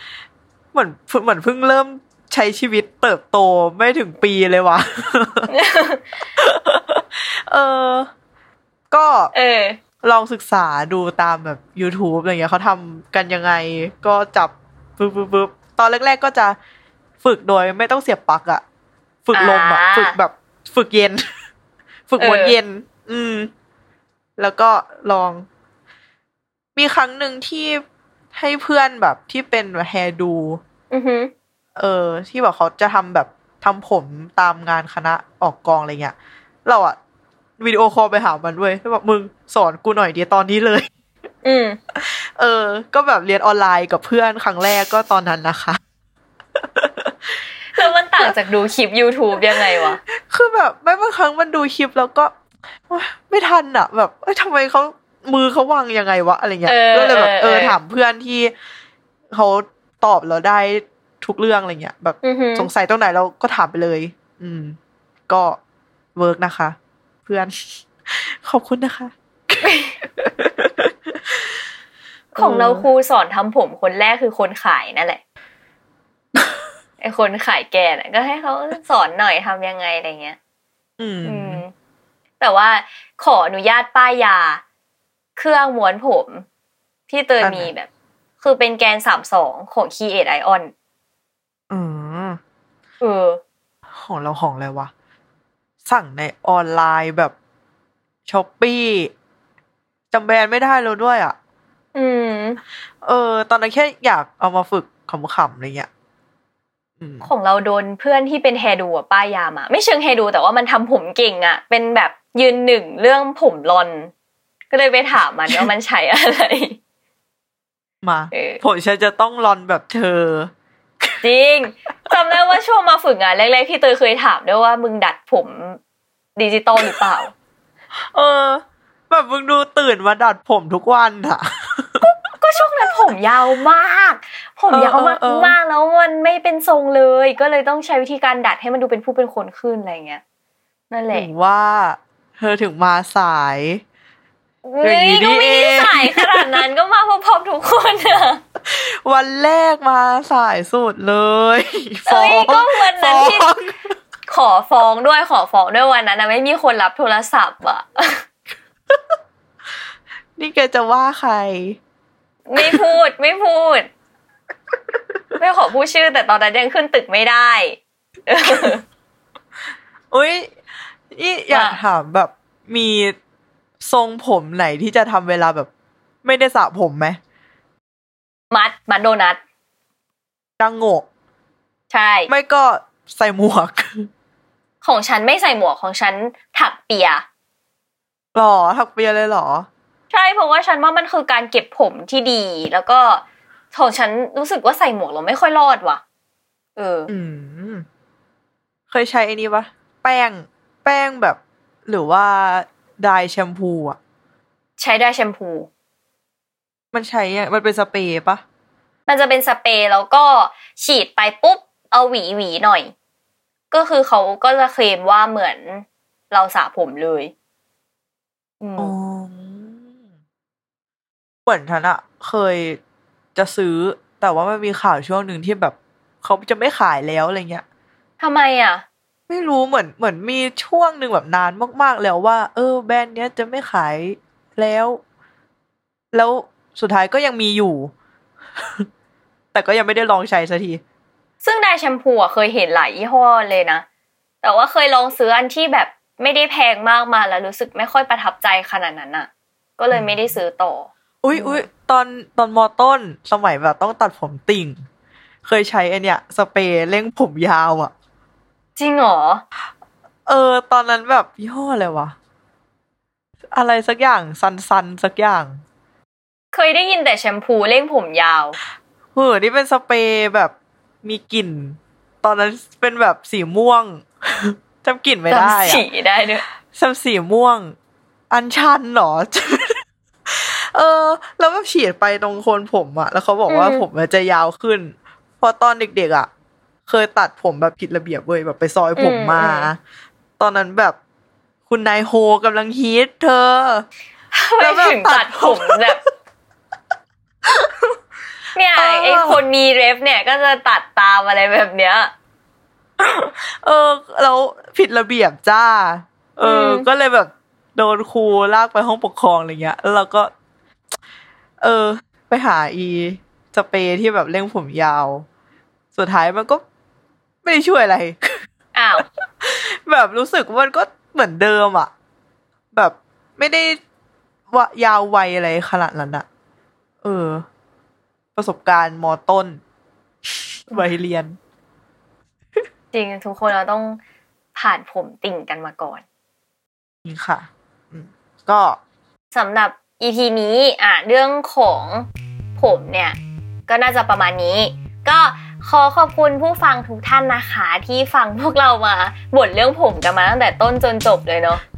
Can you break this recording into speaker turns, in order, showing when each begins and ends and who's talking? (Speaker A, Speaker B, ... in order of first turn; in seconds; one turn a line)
Speaker A: 0.7-5.5
Speaker B: 5.5-6.2
Speaker A: 6.4-8.1
Speaker A: 8.9-9.3
Speaker B: 9.3-9.8
Speaker A: 10.0-16.6
Speaker A: 17.2-18.6
Speaker A: 19.3-21.2
Speaker B: 19.3-20.2
Speaker A: 22.1-23.5
Speaker B: 22.2-22.6
Speaker A: 24.4-25.5
Speaker A: 26.7-30.6
Speaker B: 30.9-31.3
Speaker A: 31.8-37.0
Speaker A: 37.6-40.9
Speaker B: 41.4-41.8
Speaker A: 42.0-45.8
Speaker A: 46.5-48.3
Speaker B: 47.7-50.0
Speaker A: 49.4-52.3
Speaker A: 52.9-58.5
Speaker B: 56.6-57.8
Speaker A: 59.3-64.8
Speaker B: 62.2-62.7
Speaker A: 65.3-65.6
Speaker A: 66.1-67.5
Speaker A: 68.1-71.4
Speaker B: 69.6-69.9
Speaker A: 72.3-72.9
Speaker B: 72.4-75.2
Speaker B: 77.0-80.4
Speaker A: 81.0-81.6
Speaker B: 81.2-81.7
Speaker B: 82.4-84.6
Speaker B: 85.3-86.5
Speaker B: 87.1-87.9
Speaker A: 87.4-87.7
Speaker B: 88.4-90.7
Speaker A: 91.7-92.4
Speaker B: 93.0-93.4
Speaker A: 93.9-94.9
Speaker A: 95.8-97.3
Speaker A: 98.3-99.1
Speaker A: 100.1-101.3
Speaker B: 101.9-102.6
Speaker A: 103.0-105.9
Speaker A: 107.0-107.3
Speaker B: 107.2-114.1
Speaker B: 114.7-116.8
Speaker A: 118.0-121.2
Speaker B: 118.3-118.6
Speaker B: 121.2-125.8
Speaker B: 126.3-127.3
Speaker A: 128.1-132.1
Speaker B: 132.3-140.2
Speaker A: 134.7-135.6
Speaker B: 140.9-141.3
Speaker A: 141.1-143.8
Speaker B: 144.6-148.4
Speaker A: 144.8-146.7
Speaker A: 148.6-153.7
Speaker B: 152.1-153.6
Speaker B: 154.3-158.2
Speaker A: 160.4-161.8
Speaker B: 162.5-163.9
Speaker A: 162.6-162.8
Speaker B: 165.4-168.8
Speaker A: 170.1-170.5
Speaker A: 171.1-173.2
Speaker B: 171.5-171.8
Speaker A: 173.8-175.7
Speaker A: 176.2-177.2
Speaker B: 178.5-179.4
Speaker A: 180.6-181.1
Speaker B: 181.9-182.3
Speaker A: 182.3-184.1
Speaker B: 184.8-187.2
Speaker A: 188.3-189.7
Speaker B: 190.1-196.0
Speaker B: 196.8-197.1
Speaker A: 197.1-197.8
Speaker A: 198.9-204.0
Speaker B: 204.8-205.7
Speaker A: 206.9-208.4
Speaker B: 209.1-212.9
Speaker B: 213.7-217.3
Speaker B: 218.6-218.9
Speaker A: 218.8-219.8
Speaker A: 221.4-222.8
Speaker A: 223.3-227.6
Speaker B: 228.2-228.8
Speaker A: 229.3-235.0
Speaker A: 236.1-237.9
Speaker A: 238.6-238.9
Speaker A: 239.5-240.8
Speaker B: 241.4-243.8
Speaker B: 244.4-251.7
Speaker A: 249.9-250.3
Speaker A: 251.2-254.8
Speaker A: 255.4-257.9
Speaker B: 258.8-259.4
Speaker A: 260.3-262.1
Speaker A: 263.5-265.6
Speaker B: 266.5-268.6
Speaker A: 269.1-275.8
Speaker B: 275.3-276.4
Speaker A: 276.6-277.8
Speaker A: 278.3-286.3
Speaker B: 283.5-283.9
Speaker A: 286.9-289.8
Speaker B: 288.9-289.7
Speaker A: 290.4-291.0
Speaker A: 291.7-293.9
Speaker B: 294.3-296.0
Speaker A: 294.6-296.1
Speaker B: 298.5-302.1
Speaker A: 298.8-299.4
Speaker A: 303.0-310.3
Speaker B: 306.4-306.9
Speaker A: 311.6-315.2
Speaker A: 315.9-316.6
Speaker A: 317.4-318.4
Speaker B: 318.7-319.0
Speaker A: 319.4-321.9
Speaker A: 322.7-323.8
Speaker A: 324.5-326.2
Speaker A: 327.0-327.4
Speaker A: 328.3-329.6
Speaker A: 330.3-331.4
Speaker B: 332.9-334.0
Speaker B: 334.5-336.0
Speaker A: 337.0-338.8
Speaker B: 339.3-351.6